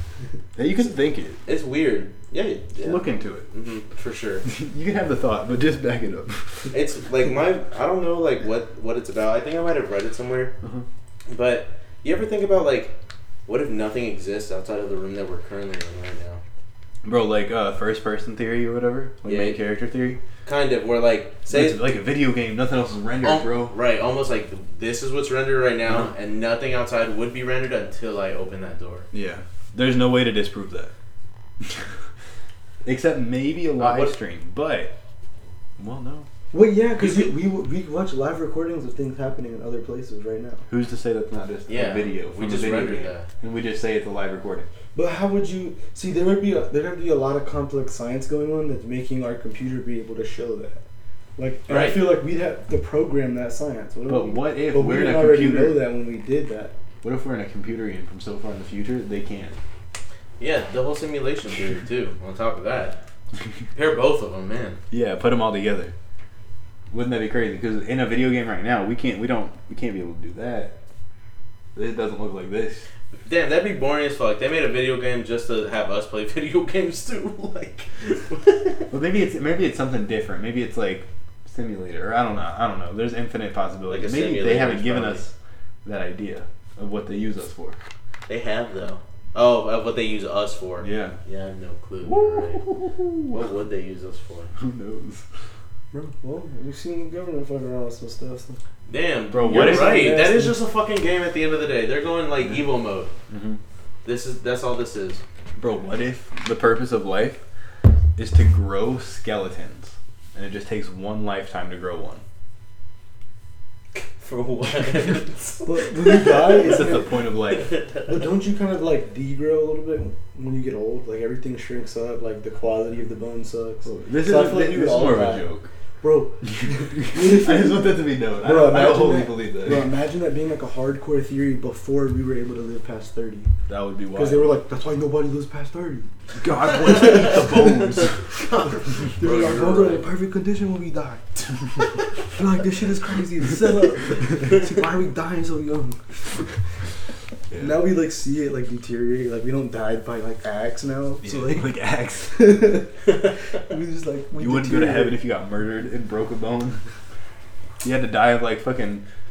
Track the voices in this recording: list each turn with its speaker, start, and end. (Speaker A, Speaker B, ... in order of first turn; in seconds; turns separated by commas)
Speaker A: 0.6-1.4, Speaker B: 1.4-4.4, Speaker A: 2.8-3.5, Speaker A: 4.4-6.7, Speaker B: 6.7-10.5, Speaker B: 11.3-16.4, Speaker A: 17.0-20.2, Speaker B: 19.2-19.6, Speaker B: 20.4-21.8, Speaker A: 21.5-23.7, Speaker B: 23.2-29.1, Speaker A: 29.1-30.9, Speaker A: 31.6-31.9, Speaker A: 32.8-34.9, Speaker B: 33.8-34.1, Speaker A: 35.8-36.3, Speaker C: 36.5-40.7, Speaker B: 37.0-37.3, Speaker A: 40.7-44.7, Speaker B: 41.7-43.3, Speaker C: 44.9-50.8, Speaker C: 51.4-56.7, Speaker B: 51.7-52.1, Speaker A: 54.1-55.9, Speaker A: 57.0-59.6, Speaker B: 60.4-63.0, Speaker B: 63.7-64.8, Speaker A: 64.9-65.9, Speaker A: 66.9-70.8, Speaker A: 71.7-72.8, Speaker B: 73.2-78.8, Speaker A: 78.9-85.3, Speaker B: 83.9-85.2, Speaker A: 85.8-87.8, Speaker B: 88.3-92.7, Speaker A: 90.8-91.2, Speaker A: 92.0-93.4, Speaker B: 93.3-94.5, Speaker A: 94.5-95.2, Speaker C: 95.9-98.6, Speaker B: 98.9-103.1, Speaker A: 99.3-100.2, Speaker C: 99.5-100.6, Speaker A: 103.3-103.6, Speaker B: 104.0-105.2, Speaker A: 105.6-107.4, Speaker A: 108.2-112.2, Speaker B: 113.9-116.9, Speaker C: 115.7-117.1, Speaker A: 116.4-117.8, Speaker B: 117.4-118.1, Speaker C: 118.0-125.5, Speaker A: 123.8-125.7, Speaker C: 126.0-133.5, Speaker A: 126.4-129.9, Speaker A: 133.7-134.5, Speaker C: 134.1-136.1, Speaker A: 136.4-138.4, Speaker C: 136.6-137.8, Speaker B: 138.3-140.1, Speaker C: 139.1-146.6, Speaker A: 147.5-147.8, Speaker C: 147.6-151.8, Speaker A: 151.2-152.5, Speaker C: 152.3-153.0, Speaker C: 153.6-155.2, Speaker A: 154.4-156.8, Speaker A: 157.8-159.0